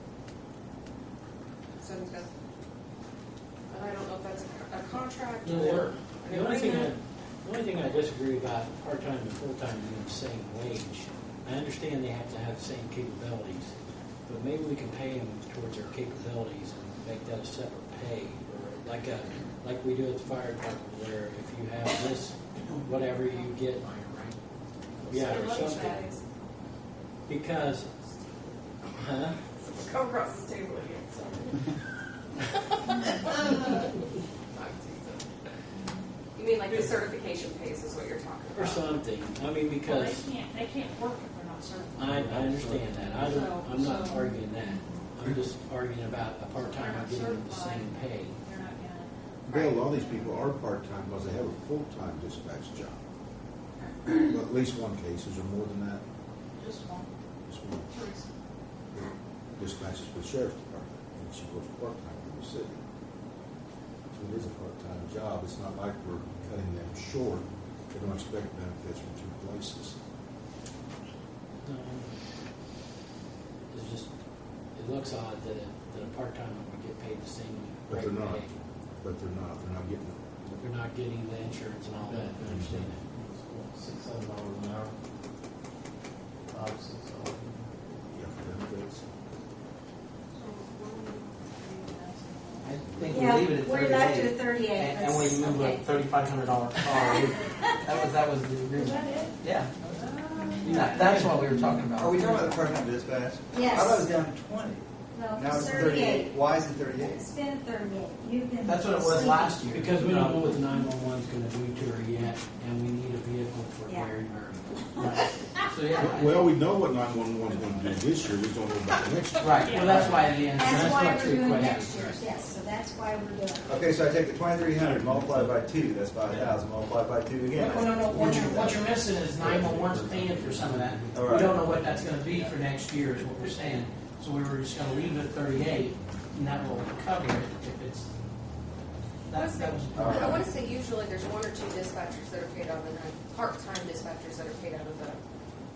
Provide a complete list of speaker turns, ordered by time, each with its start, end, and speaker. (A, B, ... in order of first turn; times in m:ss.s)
0:01.8-0:02.3 A
0:03.7-0:06.9 A
0:05.4-0:13.7 B
0:14.3-0:23.9 B
0:23.8-0:24.4 C
0:25.0-0:26.2 A
0:25.1-0:26.0 B
0:27.3-0:27.9 B
0:29.0-0:29.4 B
0:29.5-0:35.5 A
0:36.4-0:39.0 A
0:38.5-0:40.3 B
0:39.8-0:42.1 D
0:42.0-0:48.4 B
0:42.1-0:42.9 E
0:42.9-0:44.4 D
0:46.6-0:50.3 D
0:49.5-0:53.0 F
0:54.1-0:56.0 F
0:56.6-0:57.1 D
0:57.5-0:57.9 F
0:57.9-0:58.3 D
0:58.9-1:02.8 F
1:04.1-1:10.0 F
1:11.6-1:12.1 B
1:13.7-1:14.1 B
1:14.8-1:18.5 B
1:17.9-1:18.5 F
1:19.0-1:20.6 F
1:20.6-1:23.0 B
1:22.0-1:24.9 E
1:22.4-1:22.8 F
1:26.5-1:27.7 E
1:28.1-1:29.0 F
1:30.3-1:32.7 D
1:32.6-1:40.0 C
1:33.1-1:35.8 G
1:36.9-1:37.8 G
1:38.9-1:39.3 G
1:40.6-1:42.7 C
1:40.6-1:40.9 D
1:42.0-1:47.3 H
1:43.5-1:44.0 G
1:45.1-1:46.3 G
1:47.0-1:49.6 G
1:48.6-1:50.5 C
1:49.7-1:55.0 B
1:53.9-1:54.1 G
1:55.0-1:56.5 C
1:55.9-2:00.3 F
1:59.4-2:02.0 C
1:59.6-2:00.9 D
2:00.5-2:03.8 G
2:03.7-2:08.8 H
2:05.0-2:05.5 E
2:07.5-2:18.1 C
2:09.6-2:12.4 E
2:11.1-2:11.6 H
2:19.3-2:20.5 C
2:19.3-2:25.2 A
2:20.0-2:20.4 H